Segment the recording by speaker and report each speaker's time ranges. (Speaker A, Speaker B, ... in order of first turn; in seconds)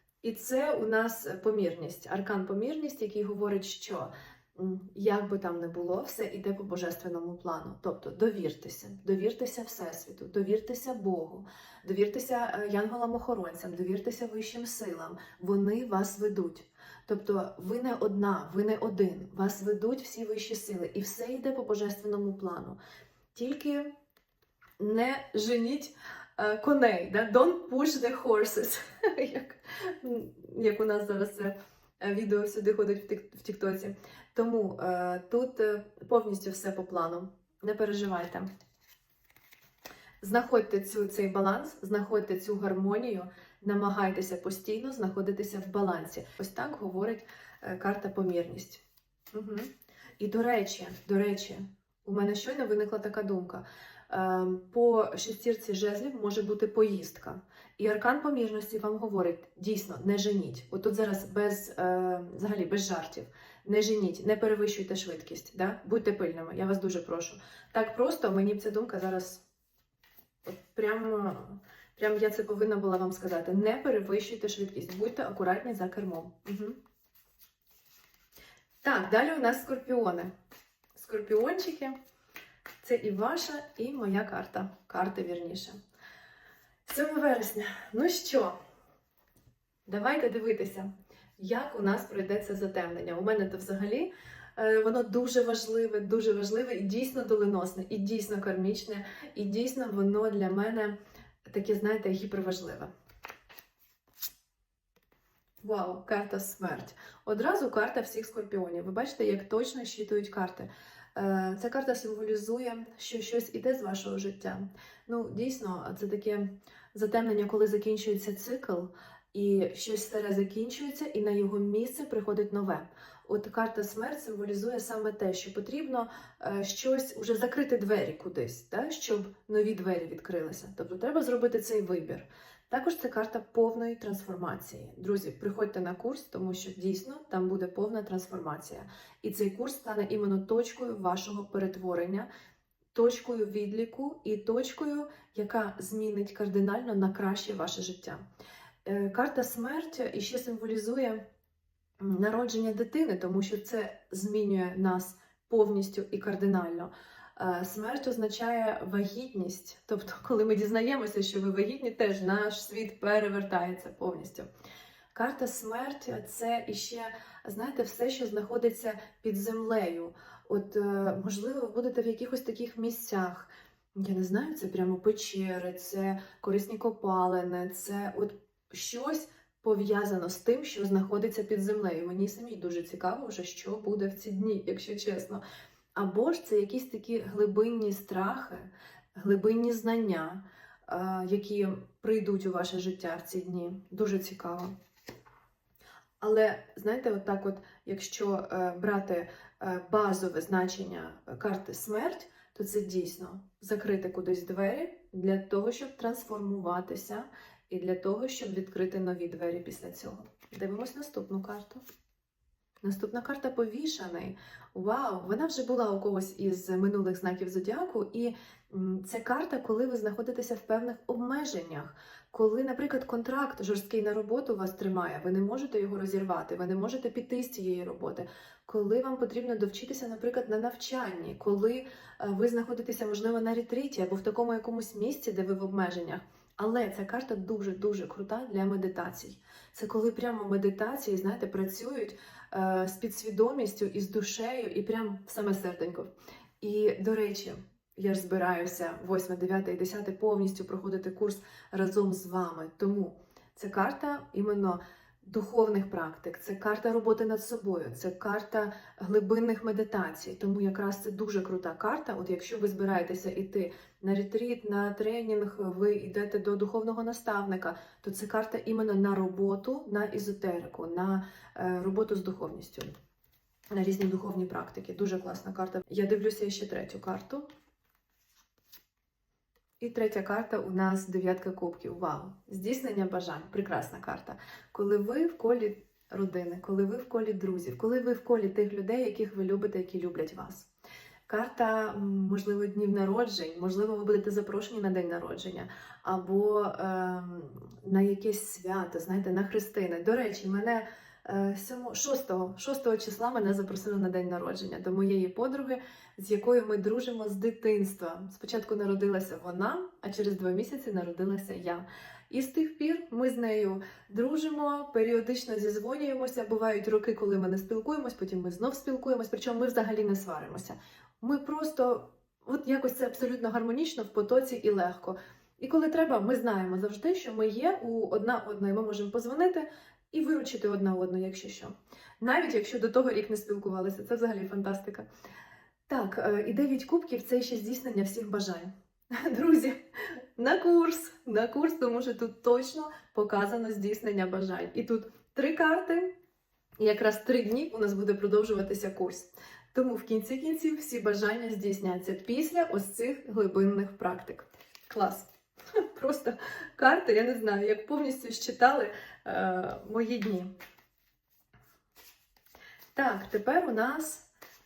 Speaker A: 0.2-22.8, 23.4-23.9, 24.8-38.5, 40.2-48.8, 49.3-69.4, 70.5-76.8, 78.8-80.3, 81.0-82.0, 82.8-85.8, 86.9-88.6, 89.9-101.0, 101.5-102.9, 105.6-142.3, 142.9-148.2, 148.8-151.2, 152.0-164.5, 165.1-185.4, 185.9-194.8, 196.2-211.8, 212.8-272.9, 273.7-277.5, 279.8-290.7, 291.3-335.1, 335.9-346.1, 346.8-355.3, 355.8-360.5, 362.9-364.3